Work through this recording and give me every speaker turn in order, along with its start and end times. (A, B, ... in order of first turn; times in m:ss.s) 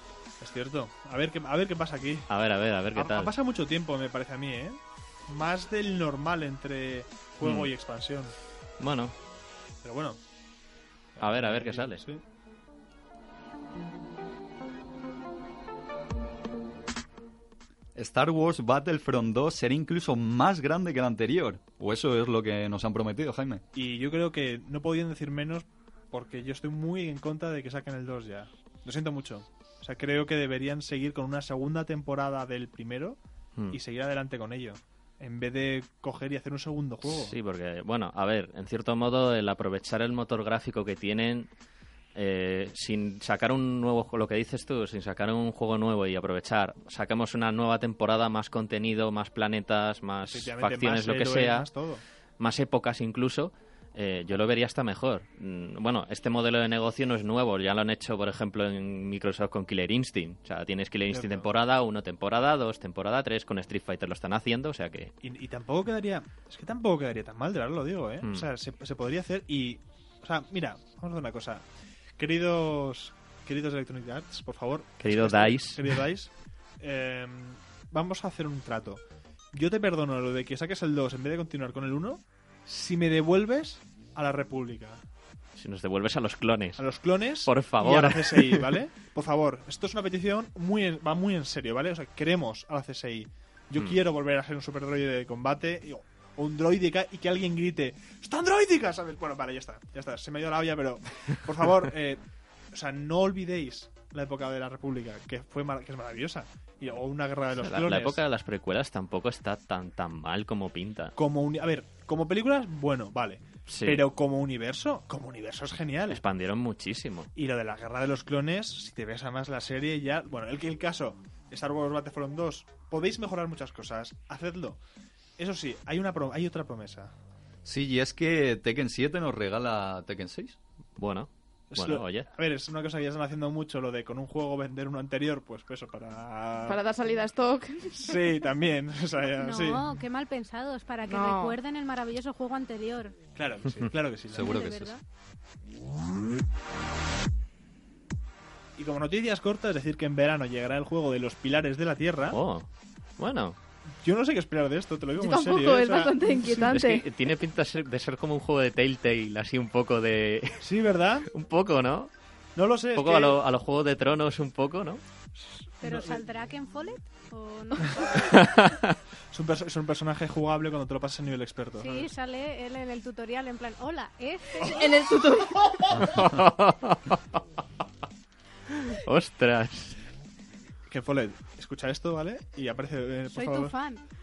0:00.4-0:02.3 A
0:02.3-0:03.3 B
0:02.9-0:08.3 A
0:07.4-0:07.7 B
0:08.8-0:09.1 B
0:09.8-0:10.2 A
0:11.2-0:12.2 A
0:11.2-0:12.0 B
0:17.9-0:23.6 C
0:23.7-0:33.2 A
0:33.7-0:37.3 A
0:37.0-0:41.5 B
0:42.1-0:51.7 B
0:50.2-0:52.0 A
0:52.4-1:05.1 B
1:01.1-1:01.5 A
1:05.2-1:11.6 A
1:08.2-1:08.5 B
1:12.2-1:19.0 A
1:15.0-1:15.9 B
1:19.5-1:25.0 A
1:25.6-1:28.7 B
1:26.8-1:48.2 A
1:47.6-1:51.1 B
1:51.2-1:56.2 A
1:53.7-1:54.0 B
1:56.1-1:57.3 B
1:57.3-2:04.8 A
2:05.4-2:07.1 A
2:07.6-2:10.6 C
2:11.0-2:12.3 B
2:11.7-2:16.8 A
2:16.7-2:18.2 D
2:18.0-2:19.8 A
2:19.4-2:23.2 E
2:21.0-2:21.6 D
2:23.3-2:24.6 A
2:24.3-2:24.9 C
2:24.4-2:25.0 E
2:28.8-2:32.4 A
2:32.3-2:32.7 B
2:33.2-2:33.6 B
2:34.0-2:36.7 A
2:35.2-2:37.0 D
2:36.6-2:40.6 B
2:40.6-2:41.3 A
2:41.3-2:42.1 B
2:42.5-2:43.4 A
2:42.9-2:45.0 B
2:45.4-2:46.2 A
2:45.8-2:48.4 E
2:48.3-2:48.9 B
2:49.3-2:52.1 A
2:51.8-2:55.0 E
2:54.6-2:56.0 D
2:55.9-2:57.4 B
2:58.7-3:00.0 B
3:00.9-3:03.7 A
3:03.3-3:04.0 E